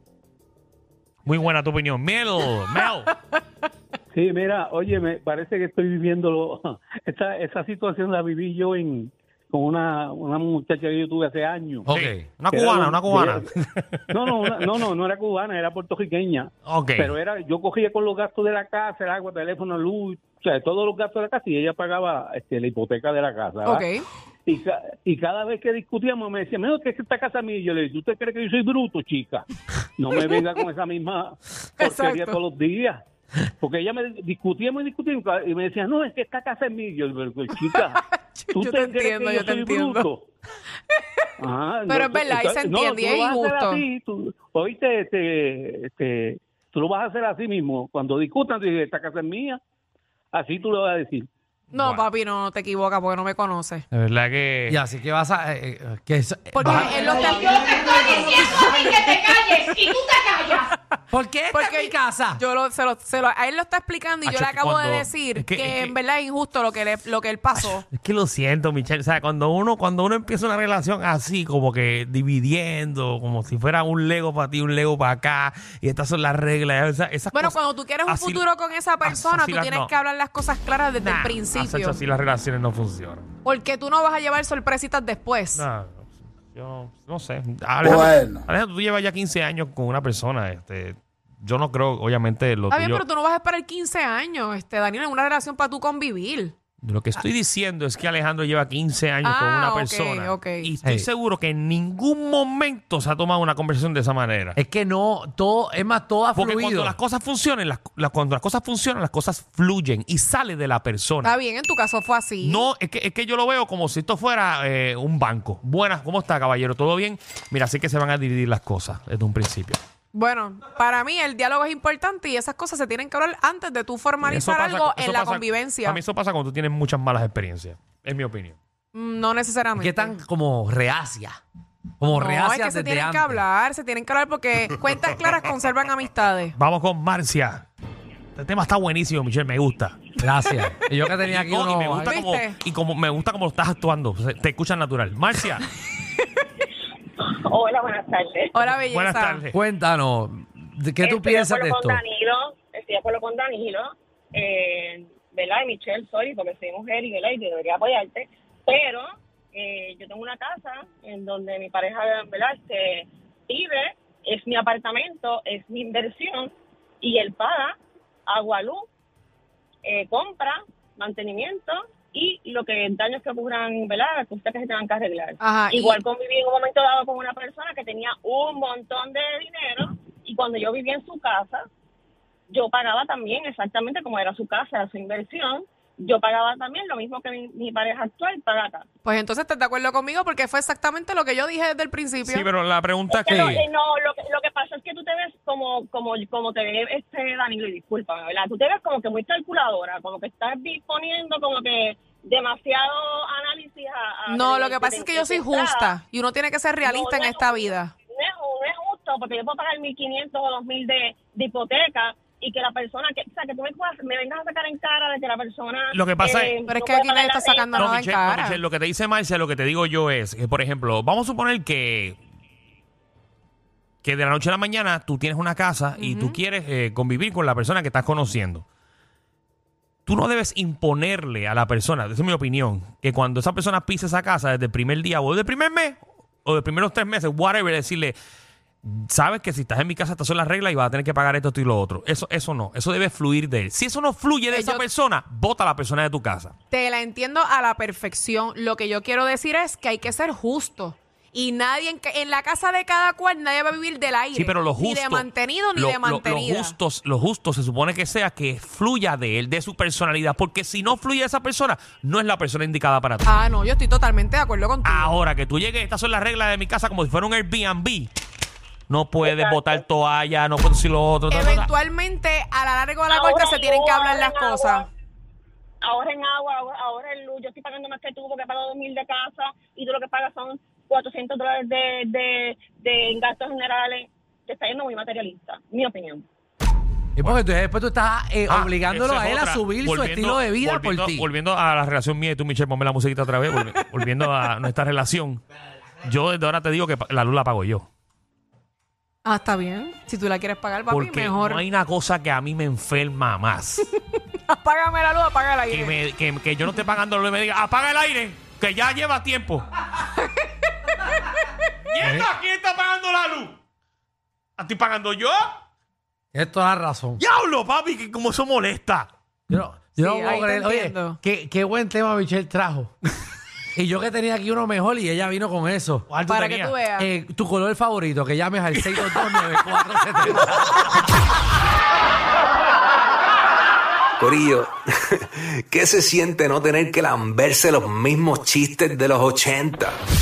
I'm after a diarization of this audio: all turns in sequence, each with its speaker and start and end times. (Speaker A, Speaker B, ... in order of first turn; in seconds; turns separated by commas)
Speaker A: 1.2-3.1, Speaker B: 4.1-11.9, Speaker C: 11.9-12.2, Speaker A: 11.9-14.4, Speaker B: 12.5-13.5, Speaker B: 14.1-23.9, Speaker A: 16.6-17.1, Speaker D: 23.6-24.0, Speaker B: 24.5-29.4, Speaker B: 30.0-33.0, Speaker D: 31.8-32.4, Speaker B: 33.6-38.0, Speaker D: 37.7-40.1, Speaker B: 38.5-40.2, Speaker D: 40.9-41.3, Speaker B: 41.4-49.6, Speaker D: 41.9-43.8, Speaker B: 50.3-51.3, Speaker A: 51.7-52.0, Speaker D: 51.7-53.8, Speaker A: 53.9-54.8, Speaker C: 54.7-57.3, Speaker D: 56.5-60.8, Speaker C: 61.1-62.4, Speaker D: 61.5-67.8, Speaker A: 64.2-65.9, Speaker A: 67.5-78.4, Speaker D: 77.3-82.0, Speaker A: 79.0-79.9, Speaker A: 81.0-83.3, Speaker D: 83.4-85.6, Speaker A: 85.5-93.0, Speaker D: 92.7-96.5, Speaker A: 96.8-104.6, Speaker D: 99.2-100.7, Speaker C: 100.8-101.1, Speaker C: 104.5-107.0, Speaker A: 106.3-111.3, Speaker D: 111.2-112.7, Speaker A: 112.4-119.8, Speaker D: 120.1-126.0, Speaker A: 124.2-128.6, Speaker D: 128.9-130.1, Speaker C: 129.8-131.4, Speaker C: 132.0-133.4, Speaker D: 132.1-136.6, Speaker A: 136.6-137.6, Speaker A: 138.3-140.1, Speaker C: 140.2-142.2, Speaker A: 141.2-145.7, Speaker D: 142.0-142.6, Speaker E: 147.2-148.6, Speaker D: 148.5-149.4, Speaker A: 148.8-149.6, Speaker C: 149.5-152.0, Speaker E: 151.0-167.7, Speaker E: 168.3-168.8, Speaker E: 169.8-181.6, Speaker D: 175.4-176.0, Speaker E: 182.5-188.8, Speaker D: 189.0-192.5, Speaker A: 192.2-193.7, Speaker E: 193.1-206.0, Speaker C: 193.3-193.6, Speaker D: 204.3-207.9, Speaker E: 206.8-217.9, Speaker A: 215.9-216.6, Speaker D: 216.7-218.6, Speaker A: 217.7-222.2, Speaker A: 224.0-228.6, Speaker D: 226.0-226.4, Speaker A: 230.1-238.2, Speaker A: 238.8-246.5, Speaker D: 244.5-244.8, Speaker D: 246.7-256.8, Speaker A: 254.3-263.3, Speaker D: 263.2-265.1, Speaker A: 264.8-268.1, Speaker A: 268.9-271.7, Speaker E: 269.2-269.8, Speaker D: 271.3-274.9, Speaker E: 273.1-274.8, Speaker E: 275.8-286.2, Speaker C: 287.2-291.3, Speaker A: 288.5-295.4, Speaker A: 296.0-297.8, Speaker D: 299.2-301.6, Speaker A: 300.9-303.9, Speaker D: 304.1-305.9, Speaker A: 305.7-309.7, Speaker D: 309.9-311.6, Speaker A: 311.8-313.6, Speaker C: 312.0-312.3, Speaker A: 314.6-315.4, Speaker C: 316.3-317.2, Speaker A: 317.2-319.1, Speaker C: 319.5-322.9, Speaker D: 320.0-321.2, Speaker C: 323.8-326.1, Speaker A: 326.1-326.8, Speaker D: 326.3-327.1, Speaker C: 327.0-330.9, Speaker A: 328.9-329.3, Speaker F: 334.2-340.0